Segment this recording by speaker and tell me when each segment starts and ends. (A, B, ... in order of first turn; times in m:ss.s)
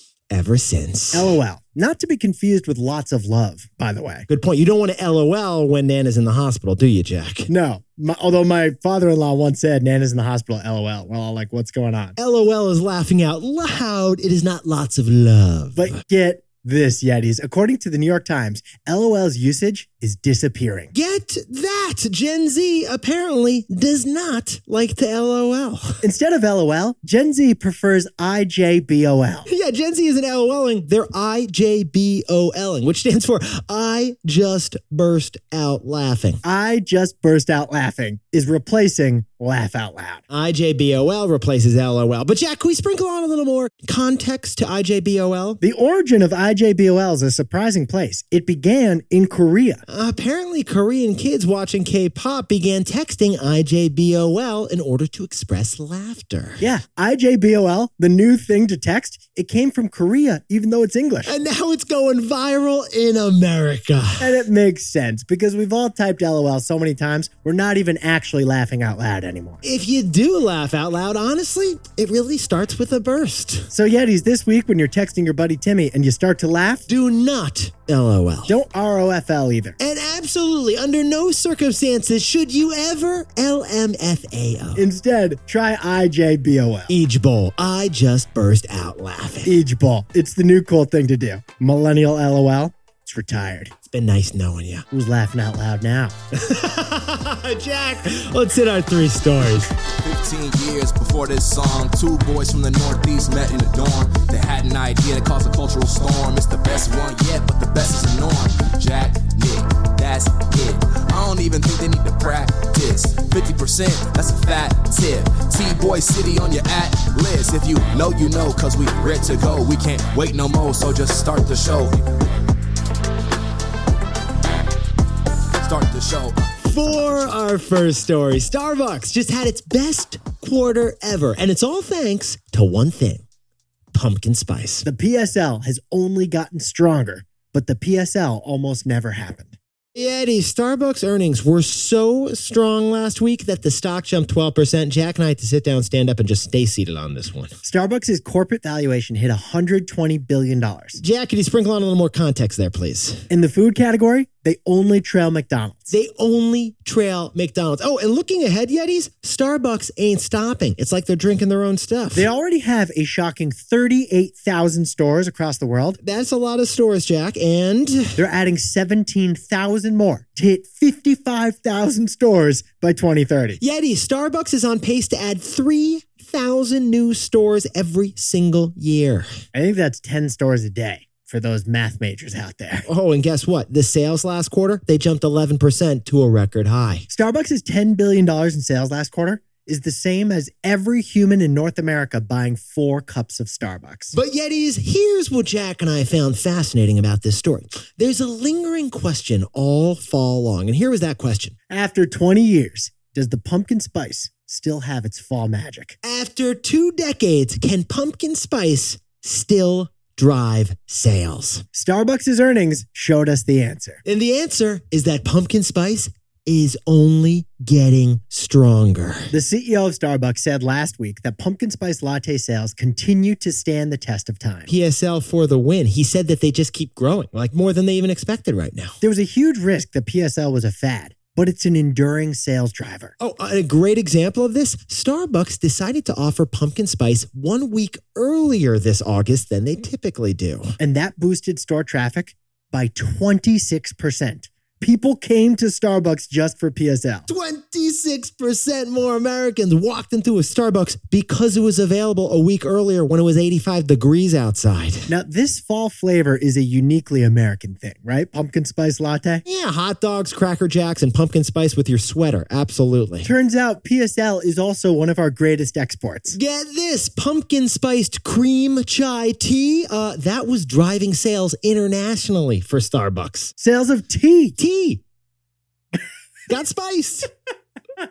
0:00.3-0:01.3 A
0:01.1-0:04.3 B
0:04.3-0:07.5 A
0:07.5-0:12.2 B
0:12.2-0:16.0 A
0:15.8-0:20.9 B
0:20.9-0:26.0 A
0:26.0-0:29.5 B
0:29.5-0:36.4 A
0:36.4-0:40.2 B
0:40.3-0:45.6 A
0:45.6-0:49.8 B
0:49.9-0:56.7 A
0:56.6-1:01.3 B
1:01.3-1:04.3 A
1:04.2-1:09.6 B
1:09.6-1:13.7 A
1:13.7-1:16.9 B
1:16.9-1:18.6 A
1:18.5-1:19.8 B
1:19.8-1:24.8 A
1:24.8-1:26.9 B
1:26.9-1:29.6 A
1:29.4-1:33.7 B
1:33.9-1:34.8 A
1:34.9-1:36.2 B
1:36.3-1:39.7 A
1:40.0-2:02.1 C
2:05.6-2:06.5 C
2:06.6-2:13.2 A
2:13.9-2:14.9 A
2:14.8-2:19.6 B
2:20.0-2:27.5 A
2:27.6-2:31.0 B
2:31.0-2:33.3 A
2:33.3-2:35.9 B
2:35.9-2:42.3 A
2:42.1-2:46.0 B
2:46.0-2:48.2 A
2:48.2-2:53.6 B
2:53.6-2:59.4 A
2:59.5-3:02.9 B
3:02.9-3:07.1 A
3:07.1-3:14.2 B
3:14.1-3:21.6 A
3:21.7-3:26.0 B
3:26.0-3:31.6 A
3:31.7-3:34.0 B
3:34.0-3:39.3 A
3:39.3-3:44.7 B
3:44.7-3:49.0 A
3:49.0-3:53.1 B
3:53.2-4:00.8 A
4:00.8-4:07.3 B
4:07.3-4:15.1 A
4:15.1-4:19.4 B
4:19.5-4:23.3 A
4:23.2-4:26.4 B
4:26.3-4:33.5 A
4:33.6-4:34.6 B
4:34.6-4:35.0 A
4:36.5-4:37.3 A